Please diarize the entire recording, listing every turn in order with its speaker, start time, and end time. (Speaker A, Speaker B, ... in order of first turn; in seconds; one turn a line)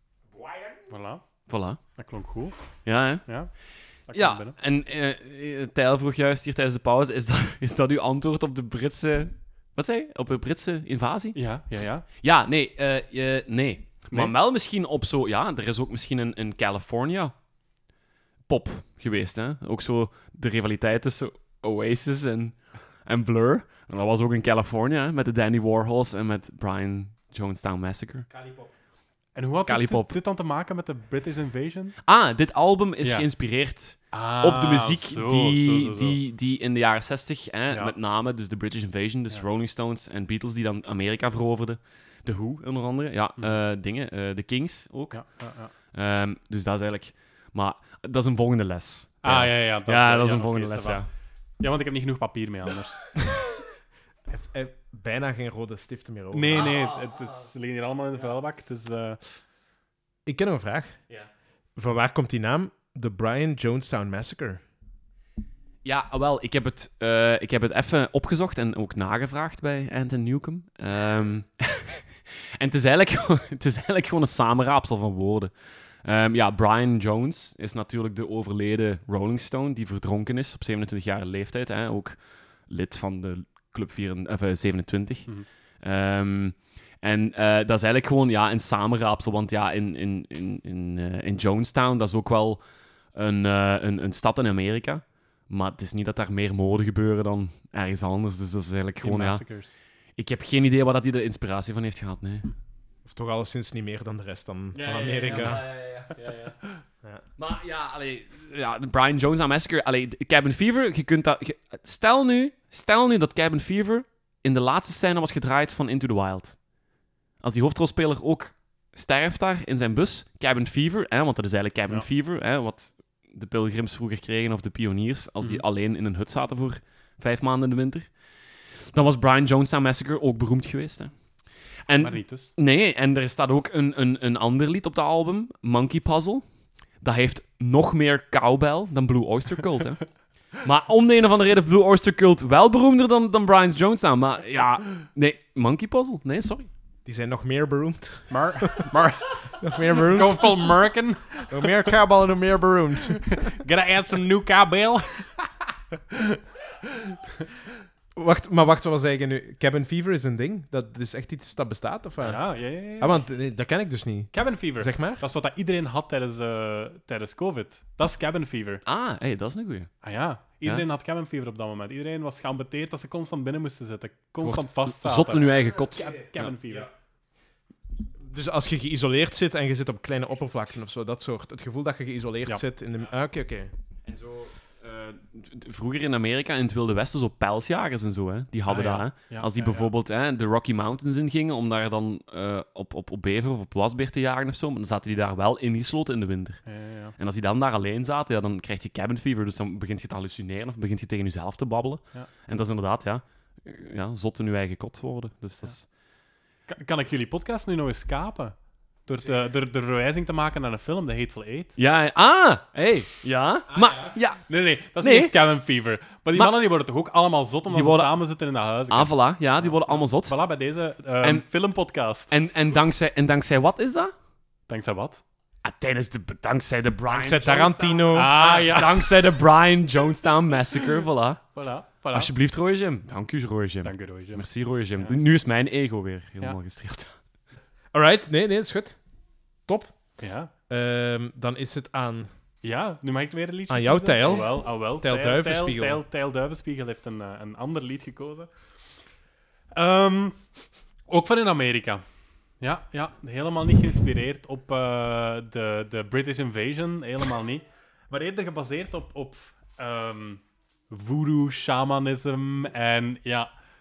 Speaker A: 0.3-0.8
Speaker B: 0.9-1.2
Speaker C: 1.5-1.8
Speaker B: 1.9-3.5
Speaker C: 2.8-11.4
Speaker B: 4.1-4.6
Speaker B: 11.3-12.1
Speaker C: 11.9-17.4
Speaker C: 18.5-28.3
Speaker A: 28.3-28.7
Speaker B: 29.4-32.0
Speaker C: 29.7-30.2
Speaker C: 32.0-51.1
Speaker B: 33.0-33.3
Speaker B: 34.1-36.2
Speaker B: 37.7-38.0
Speaker B: 45.1-45.7
Speaker B: 49.2-51.1
Speaker B: 51.6-53.2
Speaker A: 54.3-56.8
Speaker B: 56.3-59.4
Speaker C: 56.5-57.5
Speaker A: 60.3-61.0
Speaker A: 61.8-64.6
Speaker C: 65.8-72.1
Speaker C: 72.6-99.5
Speaker B: 99.0-99.8
Speaker C: 100.1-102.5
Speaker A: 103.0-105.6
Speaker B: 104.7-106.2
Speaker C: 104.8-106.6
Speaker C: 107.4-116.6
Speaker C: 117.4-128.1
Speaker C: 128.9-131.2
Speaker C: 131.9-136.4
Speaker B: 132.0-132.6
Speaker C: 137.0-146.7
Speaker A: 147.1-148.9
Speaker B: 148.3-152.0
Speaker A: 149.6-150.6
Speaker A: 151.5-153.4
Speaker B: 153.2-157.2
Speaker A: 158.2-165.2
Speaker B: 162.2-163.2
Speaker B: 164.3-168.8
Speaker C: 168.8-169.9
Speaker B: 170.0-176.9
Speaker C: 174.4-176.5
Speaker A: 176.6-176.9
Speaker A: 178.2-183.7
Speaker C: 184.1-196.6
Speaker B: 188.7-189.9
Speaker B: 196.7-197.2
Speaker C: 197.2-205.9
Speaker B: 206.7-211.8
Speaker C: 211.8-215.3
Speaker A: 212.8-213.1
Speaker A: 213.7-214.2
Speaker B: 214.4-222.3
Speaker C: 217.7-218.2
Speaker C: 218.9-220.4
Speaker C: 222.3-224.1
Speaker B: 224.7-225.2
Speaker C: 225.6-231.4
Speaker A: 227.1-228.4
Speaker B: 228.1-229.3
Speaker B: 231.5-232.3
Speaker C: 232.1-237.1
Speaker B: 233.8-234.4
Speaker B: 235.0-235.2
Speaker A: 237.9-239.0
Speaker A: 239.7-240.2
Speaker B: 240.2-240.5
Speaker A: 240.7-242.3
Speaker B: 242.6-248.5
Speaker A: 243.7-246.0
Speaker B: 249.7-250.5
Speaker B: 251.1-252.0
Speaker B: 252.6-263.5